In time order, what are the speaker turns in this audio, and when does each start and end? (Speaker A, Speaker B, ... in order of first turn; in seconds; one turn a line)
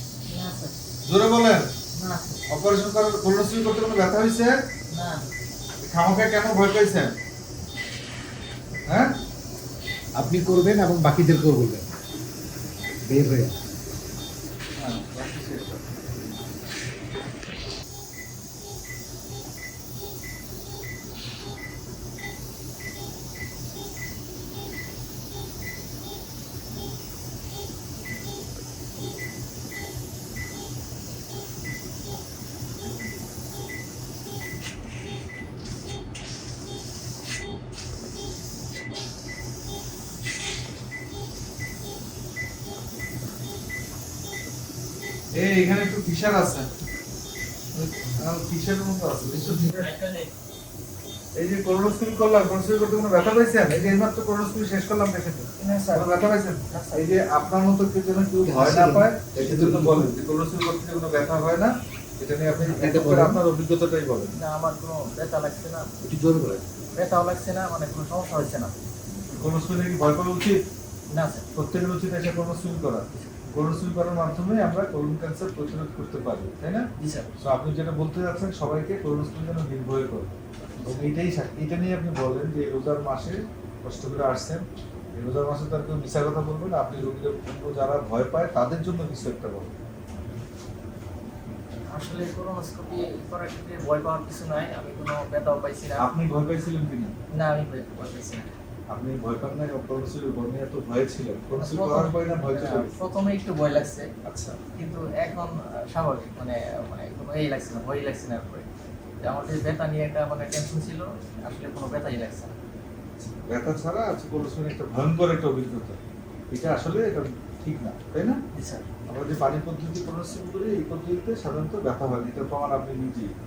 Speaker A: 0.3-0.8
Speaker B: 1.1-1.7
Speaker A: 2.0-2.4
Speaker B: 2.5-4.5
Speaker A: 4.9-5.3
Speaker B: 5.8-7.1
Speaker C: 10.2-11.8
Speaker C: 13.1-13.5
Speaker B: 14.8-16.4
Speaker B: 45.4-46.7
Speaker B: 47.8-49.8
Speaker A: 49.6-50.3
Speaker B: 51.4-64.4
Speaker A: 55.6-56.1
Speaker A: 56.7-57.0
Speaker C: 58.4-60.1
Speaker C: 62.7-63.4
Speaker A: 64.3-65.9
Speaker C: 66.0-66.7
Speaker A: 67.0-68.8
Speaker B: 69.3-70.6
Speaker A: 71.1-71.5
Speaker B: 71.5-76.9
Speaker A: 77.0-77.3
Speaker B: 77.4-80.3
Speaker A: 80.8-81.1
Speaker B: 80.8-89.7
Speaker A: 91.9-96.0
Speaker B: 96.0-97.1
Speaker A: 97.3-98.5
Speaker B: 98.9-102.9
Speaker A: 101.5-104.1
Speaker B: 104.2-104.6
Speaker A: 104.7-108.7
Speaker A: 109.2-112.5
Speaker B: 113.2-116.0
Speaker B: 116.5-118.4
Speaker A: 118.5-118.9
Speaker B: 119.1-123.3